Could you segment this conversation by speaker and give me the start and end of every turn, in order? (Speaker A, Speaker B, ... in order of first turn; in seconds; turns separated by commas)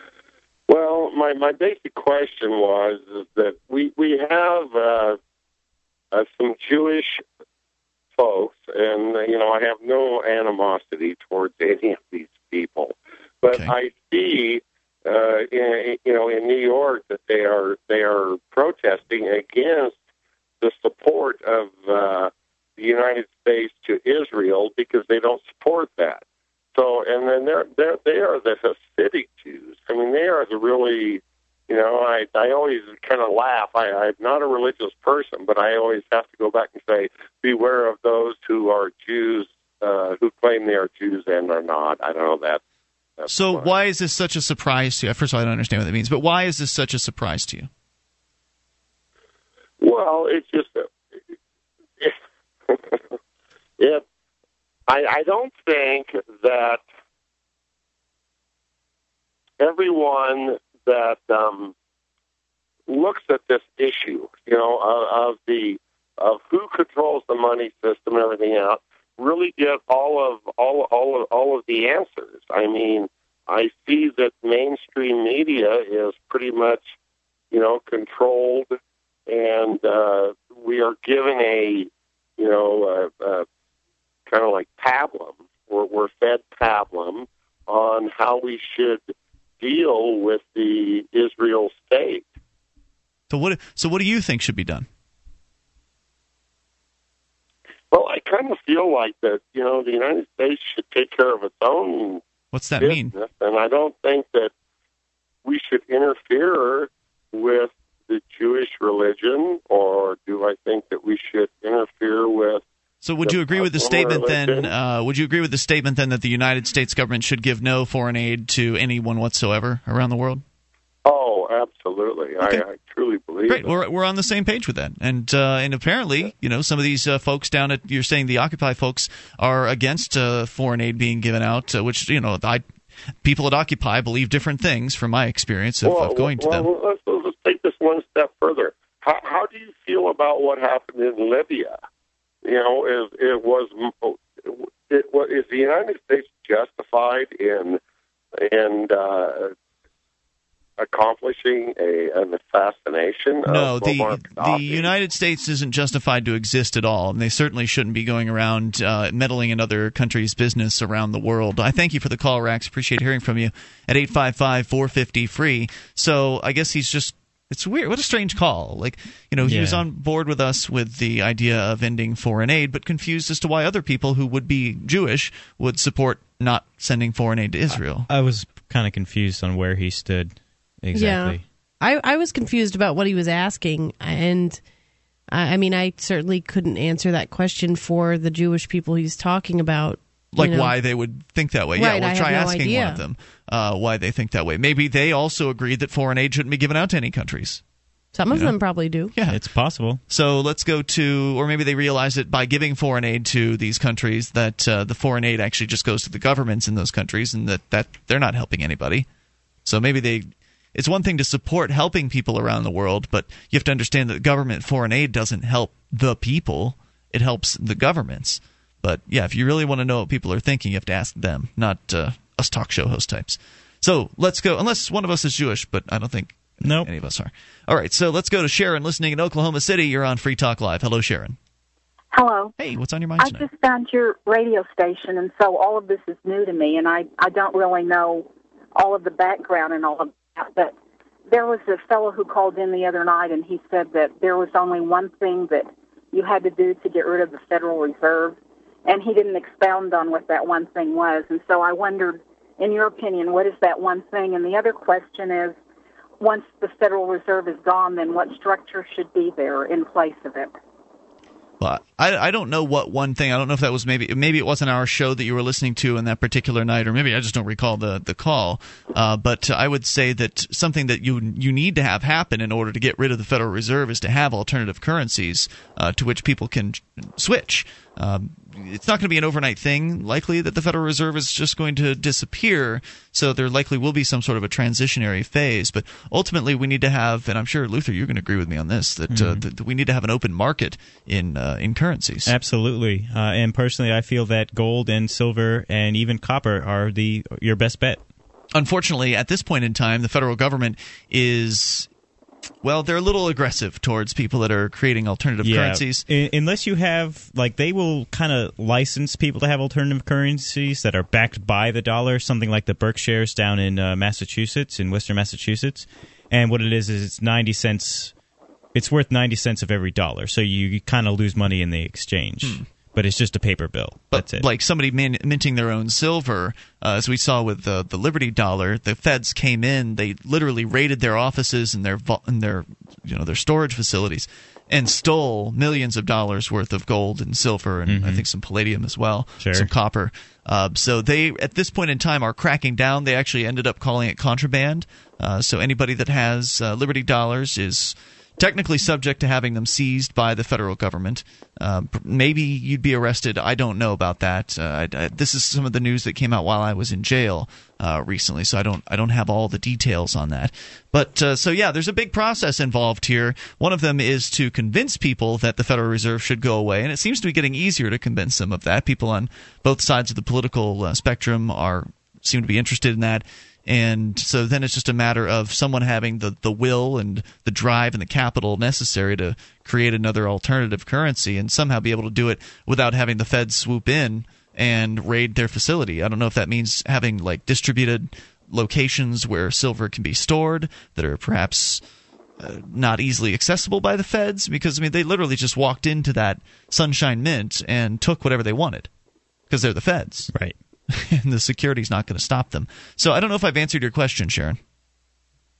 Speaker A: 0.7-5.2, Speaker A: 6.1-7.2, Speaker A: 8.2-20.0, Speaker A: 20.6-26.2, Speaker A: 26.8-42.6, Speaker A: 43.2-43.7, Speaker B: 43.3-47.7, Speaker A: 49.8-50.9, Speaker A: 52.7-53.0, Speaker A: 53.8-54.0, Speaker A: 54.9-56.8, Speaker A: 59.6-61.7, Speaker A: 62.9-76.9, Speaker A: 77.5-78.8, Speaker A: 79.3-83.5, Speaker A: 84.3-92.3, Speaker B: 93.3-94.9, Speaker A: 97.9-102.2, Speaker B: 102.5-103.1, Speaker A: 102.8-104.5, Speaker A: 105.5-112.6, Speaker B: 113.0-120.4, Speaker A: 113.2-114.7, Speaker A: 121.0-123.7, Speaker B: 123.5-132.6, Speaker B: 133.2-136.7, Speaker A: 135.8-141.8, Speaker A: 142.4-147.8, Speaker A: 148.4-149.5, Speaker A: 150.8-154.9, Speaker B: 153.5-178.1, Speaker C: 169.4-169.8, Speaker C: 177.7-181.4, Speaker D: 180.9-184.6, Speaker D: 185.3-190.7, Speaker B: 190.3-197.6, Speaker D: 191.8-193.0, Speaker D: 198.1-199.1, Speaker B: 199.1-199.4, Speaker C: 199.3-200.0, Speaker B: 200.1-209.1, Speaker B: 209.6-231.4, Speaker C: 226.6-226.9, Speaker E: 232.1-232.5, Speaker B: 232.6-233.5, Speaker E: 233.2-240.7, Speaker E: 241.3-255.6, Speaker E: 256.2-260.5, Speaker B: 261.6-292.3, Speaker C: 289.1-289.4, Speaker C: 292.3-298.0, Speaker B: 298.5-301.9, Speaker B: 302.6-306.1, Speaker C: 305.4-318.1, Speaker C: 318.7-324.5, Speaker B: 324.1-391.8, Speaker C: 337.9-338.2, Speaker C: 339.4-339.7, Speaker B: 392.4-398.9, Speaker B: 399.5-400.3, Speaker B: 400.9-404.6